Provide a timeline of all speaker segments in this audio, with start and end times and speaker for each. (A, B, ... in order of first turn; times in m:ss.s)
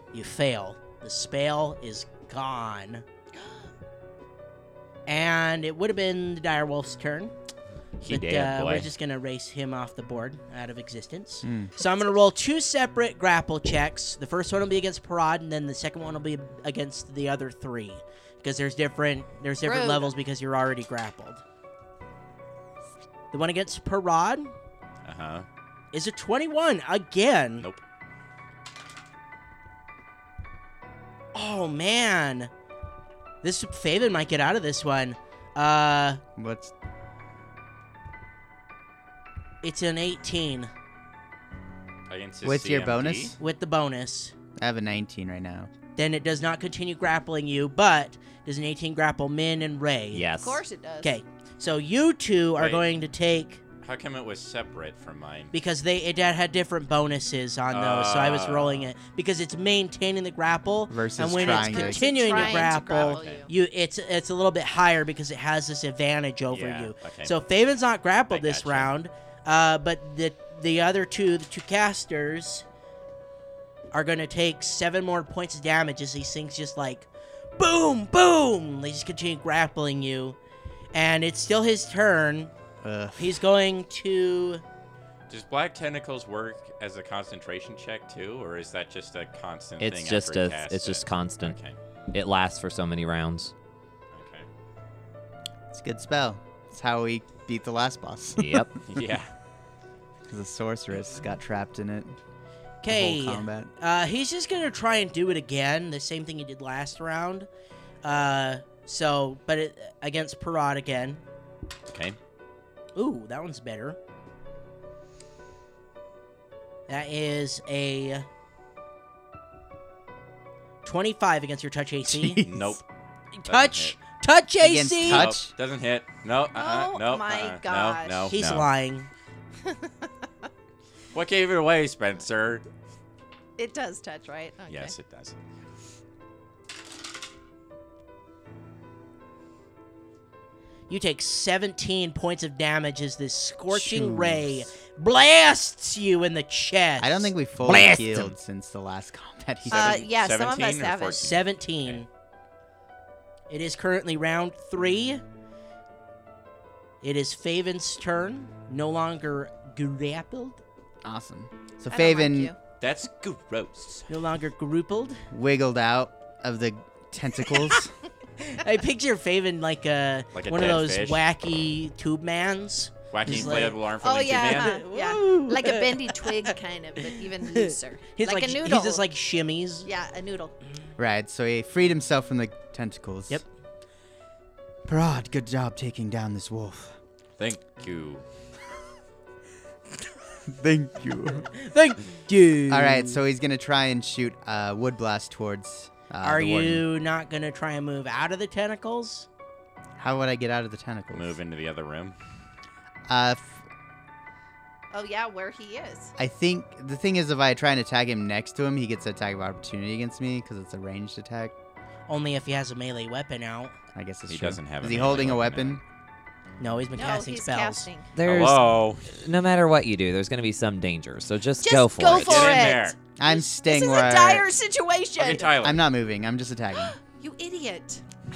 0:00.1-0:03.0 A
0:05.1-0:07.3 A
0:08.0-0:08.8 B
0:08.1-0:21.4 A
0:08.2-0:08.8 C
0:11.4-0:11.7 D
0:19.6-0:20.1 E
0:23.3-0:24.5 A
0:25.1-0:25.5 B
0:25.9-0:27.7 A
0:31.3-0:32.5 A
0:33.4-0:36.2 A
0:36.4-0:36.7 D
0:39.6-0:40.7 A
0:42.1-0:43.4 B
0:42.4-0:43.4 D
0:43.4-0:44.4 A
0:44.6-0:45.7 D
0:46.0-0:50.3 A
0:50.1-0:50.6 C
0:50.4-0:51.2 E
0:51.0-0:53.6 A
0:52.6-0:52.8 B
0:53.8-0:55.5 B
0:55.5-1:12.6 A
0:57.7-0:58.9 B
1:00.9-1:02.4 D
1:01.3-1:03.5 E
1:02.4-1:03.5 B
1:06.5-1:07.4 B
1:08.3-1:08.9 B
1:13.9-1:20.4 A
1:20.9-1:22.5 A
1:22.8-1:23.4 D
1:23.2-1:24.6 A
1:25.3-1:31.8 B
1:29.8-1:31.6 C
1:32.1-1:33.5 C
1:34.1-1:34.5 B
1:35.7-1:38.7 D
1:38.4-1:38.7 C
1:38.9-1:39.3 B
1:40.3-1:42.2 D
1:42.8-1:47.5 A
1:42.9-1:43.7 D
1:48.0-1:51.2 A
1:51.9-1:52.2 B
1:53.0-1:54.0 A
1:56.9-1:58.3 A
2:00.8-2:02.4 A
2:02.1-2:02.8 D
2:02.4-2:02.8 B
2:03.4-2:05.4 A
2:03.5-2:04.0 B
2:04.6-2:05.5 D
2:05.0-2:08.7 B
2:06.5-2:08.3 E
2:08.3-2:09.1 A
2:09.6-2:10.1 E
2:11.1-2:12.6 B
2:13.6-2:14.9 E
2:14.7-2:15.4 B
2:20.9-2:27.3 A
2:23.7-2:24.7 D
2:27.0-2:30.0 D
2:27.6-2:28.3 C
2:29.7-2:32.0 B
2:29.7-2:31.3 E
2:31.2-2:32.1 A
2:33.5-2:35.2 A
2:37.0-2:40.6 A
2:41.0-2:42.5 D
2:41.9-2:42.6 E
2:42.8-2:44.1 B
2:44.1-2:45.2 A
2:45.3-2:47.9 D
2:48.4-2:53.8 A
2:50.3-2:51.2 B
2:53.1-2:54.8 B
2:53.3-2:53.6 D
2:54.0-2:59.0 E
2:54.3-2:56.5 A
2:57.0-2:59.9 A
2:59.8-3:00.5 E
3:01.0-3:03.4 D
3:04.9-3:07.0 D
3:07.4-3:08.2 B
3:10.4-3:11.5 D
3:11.5-3:13.2 A
3:12.7-3:16.8 D
3:16.2-3:19.3 A
3:20.0-3:21.4 D
3:21.1-3:22.2 B
3:23.1-3:23.6 D
3:24.9-3:26.1 E
3:26.2-3:31.5 D
3:32.1-3:33.8 A
3:33.9-3:35.8 D
3:34.3-3:35.8 B
3:36.6-3:37.9 A
3:37.0-3:38.1 E
3:38.1-3:42.7 C
3:38.2-3:39.1 B
3:41.6-3:45.5 E
3:42.1-3:43.0 B
3:43.2-3:44.5 D
3:45.2-3:45.8 B
3:45.6-3:47.0 D
3:46.8-3:48.0 E